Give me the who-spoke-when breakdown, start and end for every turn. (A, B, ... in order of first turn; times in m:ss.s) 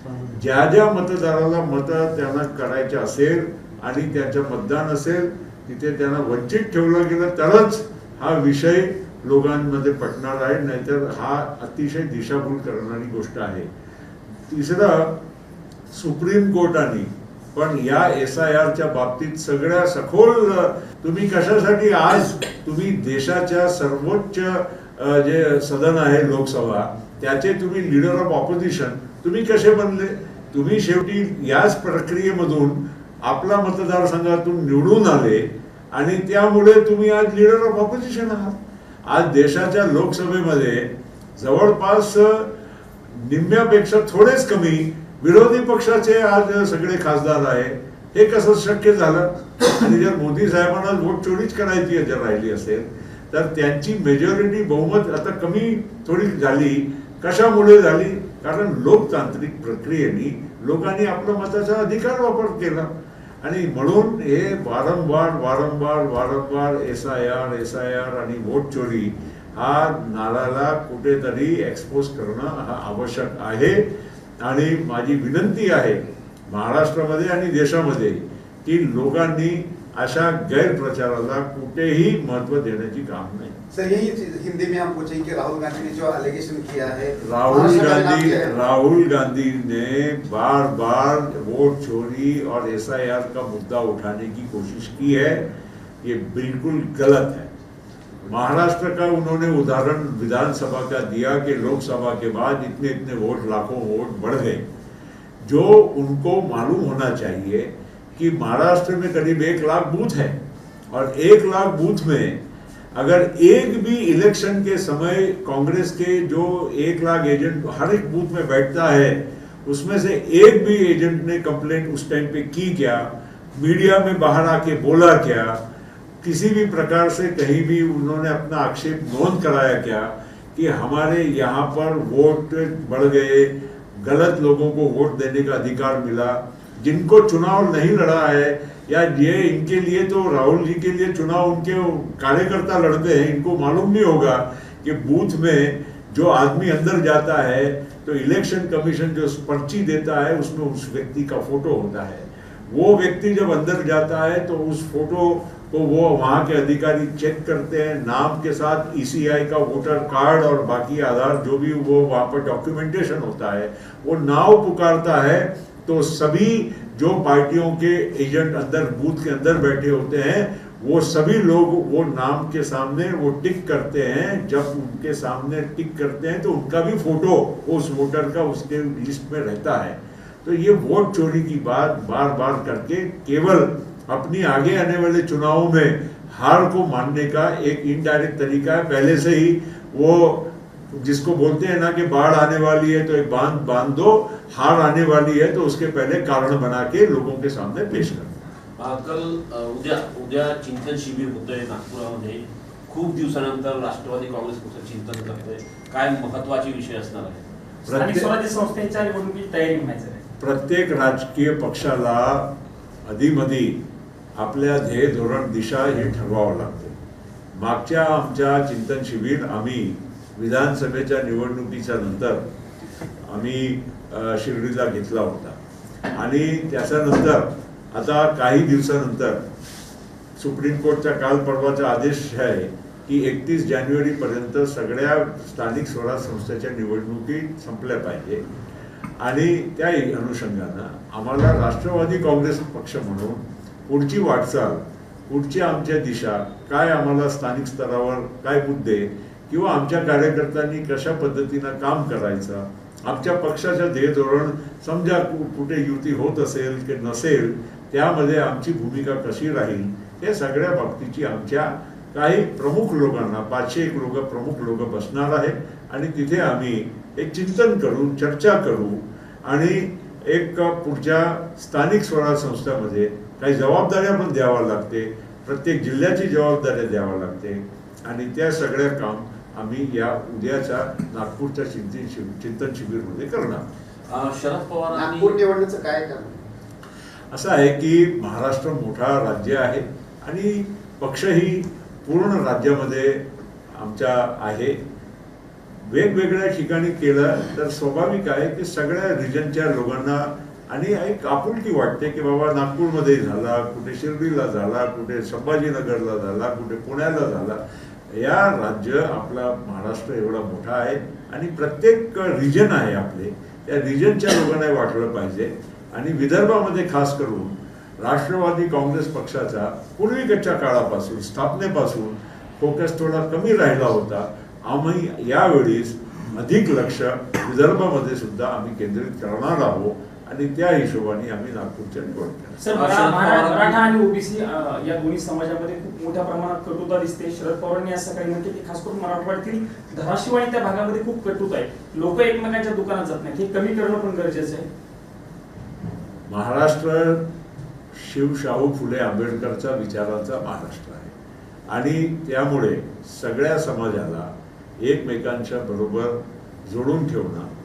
0:00.3-0:13.7 A
0:14.5-0:15.2 A
0:15.9-0:42.5 A
0:43.1-1:02.9 A
1:03.4-1:13.8 A
1:14.4-1:23.6 A
1:23.7-1:28.5 B
1:27.2-1:35.5 A
1:36.0-1:37.5 A
1:38.3-1:44.6 A
1:45.4-1:50.4 A
1:50.9-1:52.4 A
1:52.9-2:05.6 A
2:06.2-3:18.4 A
3:18.8-3:27.4 C
3:27.8-3:28.3 A
3:27.9-3:30.2 D
3:30.4-3:32.5 A
3:33.1-3:33.8 A
3:34.4-3:37.0 A
3:37.6-3:42.4 A
3:43.2-3:45.6 A
3:46.1-3:49.4 A
3:50.4-3:58.4 A
3:59.2-4:43.6 A
4:44.1-4:45.4 C
4:44.9-4:46.4 B
4:47.3-4:54.8 A
4:55.9-5:32.6 A
5:32.6-5:44.6 D
5:32.7-5:33.9 C
5:46.3-5:47.2 A
5:48.0-5:51.1 A
5:51.7-5:54.3 A
5:54.8-5:57.5 A